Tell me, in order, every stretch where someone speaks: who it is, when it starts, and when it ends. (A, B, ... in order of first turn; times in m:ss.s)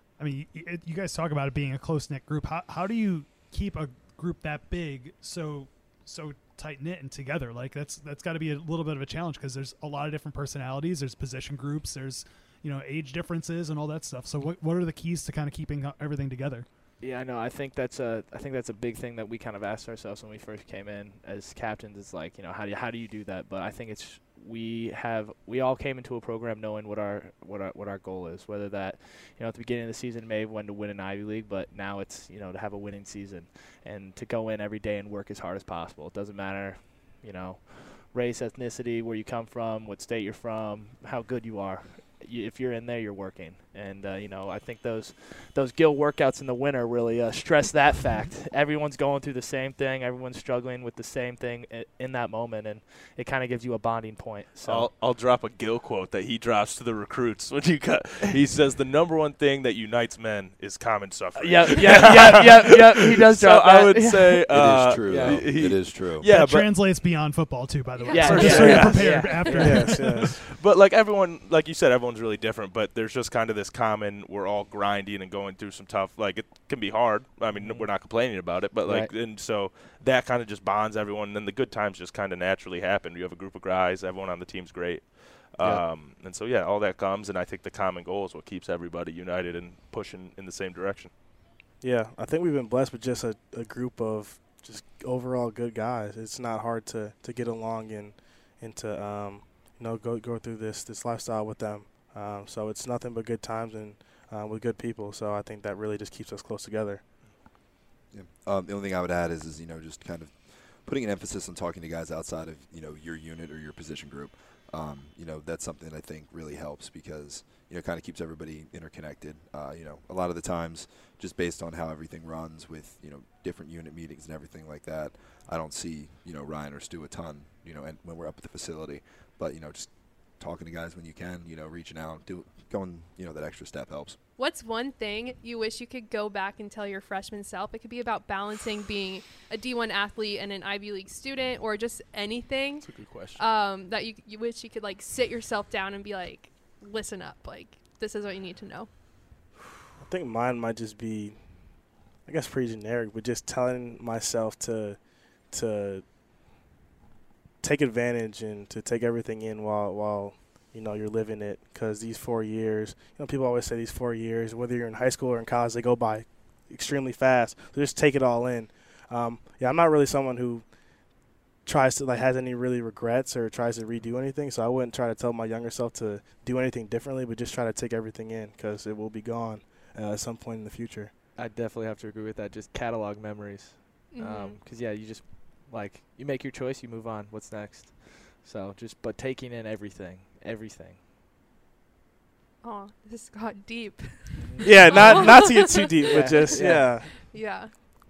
0:00.2-0:16.6 A
0:17.0-0:54.9 B
0:54.6-1:06.7 C
1:01.4-1:05.4 B
1:04.5-1:06.2 D
1:06.2-1:10.3 A
1:07.9-1:09.0 E
1:08.1-1:10.0 B
1:08.2-1:09.4 C
1:09.6-1:10.4 F
1:10.1-1:31.1 C
1:17.5-1:17.9 B
1:18.8-1:19.1 B
1:31.8-1:47.0 F
1:48.1-2:14.2 D
2:14.4-2:28.9 E
2:22.8-2:23.4 C
2:30.0-2:31.4 F
2:32.2-2:36.0 F
2:37.6-2:50.6 F
2:51.6-3:01.1 F
3:01.4-3:11.0 B
3:04.1-3:04.6 E
3:12.6-3:17.7 E
3:14.4-3:15.3 B
3:14.6-3:17.1 F
3:16.1-3:16.9 B